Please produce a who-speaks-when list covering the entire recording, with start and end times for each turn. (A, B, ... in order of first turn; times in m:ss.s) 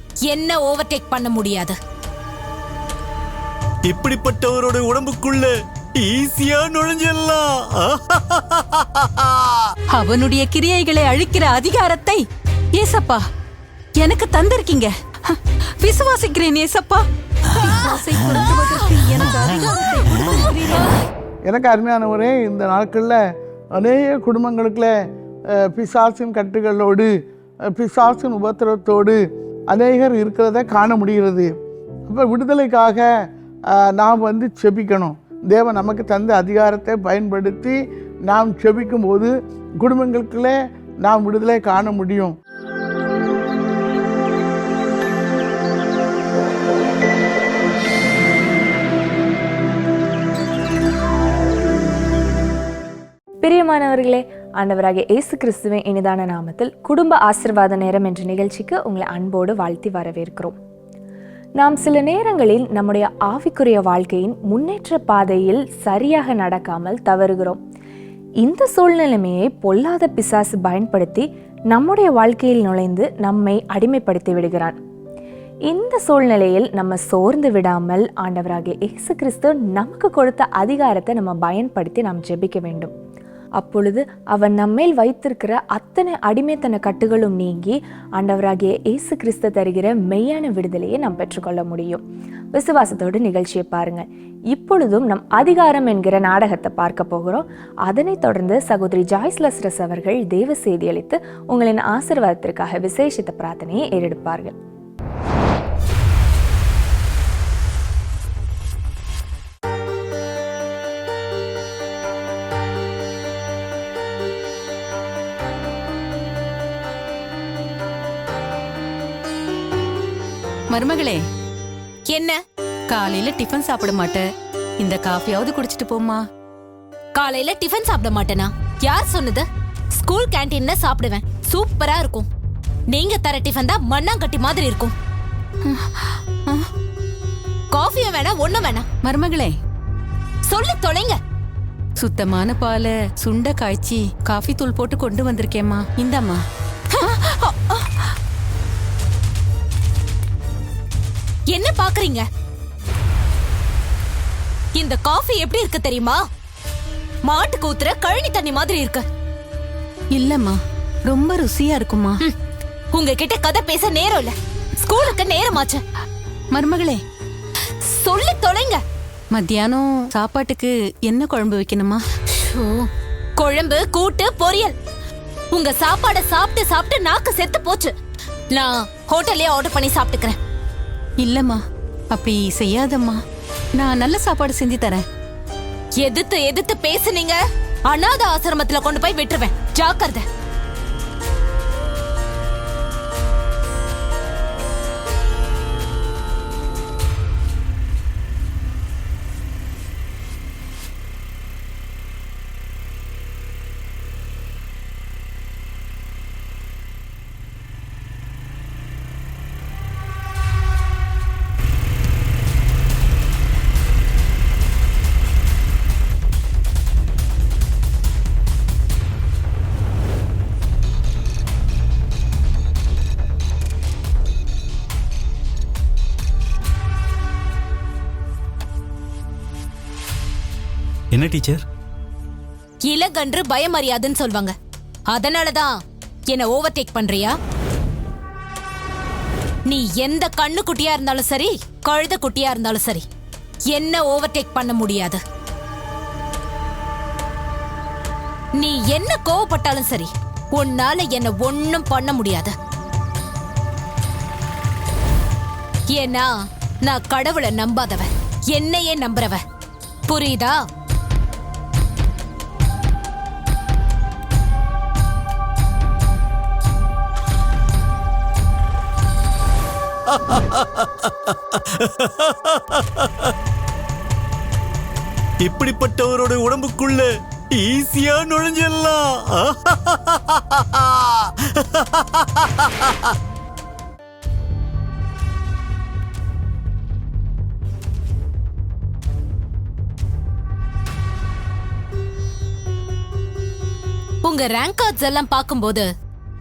0:00.3-0:01.8 A
0:03.9-0:09.7 B
0:09.9-0:12.2 C
0:12.8-0:13.2 C
0:14.0-0:17.0 C
0:17.6-0:21.0 C
0:21.4-0:23.2 D
0:23.7-0:24.9 D
0:25.5-0:27.1 D
0:27.6-0:31.5 D
0:32.1-0:33.1 D
0:33.7-0:42.4 D
0:53.4-1:00.6 E
1:01.6-1:07.6 E
1:08.4-1:14.8 E
1:15.7-1:22.9 E
1:23.6-1:32.0 E
1:32.5-1:44.6 E
2:00.7-2:01.2 C
2:02.1-2:02.4 A
2:02.9-2:04.2 C
2:04.8-2:06.2 C
2:07.1-2:12.3 A
2:12.9-2:14.9 A
2:15.6-2:16.7 C
2:17.7-2:18.8 A
2:19.0-2:19.5 C
2:20.5-2:21.2 A
2:22.0-2:26.4 C
2:26.9-2:27.8 A
2:31.5-2:32.2 A
2:34.8-2:36.2 A
2:37.2-2:39.0 A
2:40.1-2:42.2 C
2:42.9-2:45.8 A
2:46.5-2:47.0 C
2:47.9-2:48.8 A
2:49.3-2:52.0 C
2:52.3-2:54.7 A
2:55.5-2:57.9 A
2:58.5-3:00.4 A
3:01.2-3:01.6 C
3:02.1-3:03.2 C
3:03.8-3:05.0 C
3:06.0-3:10.2 A
3:51.1-3:51.6 B
3:52.9-3:54.5 A
3:55.1-3:55.8 A
3:56.3-3:57.4 A
3:59.7-4:03.0 A
4:03.7-4:05.2 A
4:08.6-4:12.5 A
4:15.9-4:19.4 A
4:20.1-4:20.6 A
4:30.1-4:33.3 B
4:35.4-4:43.1 B
4:54.2-4:55.9 A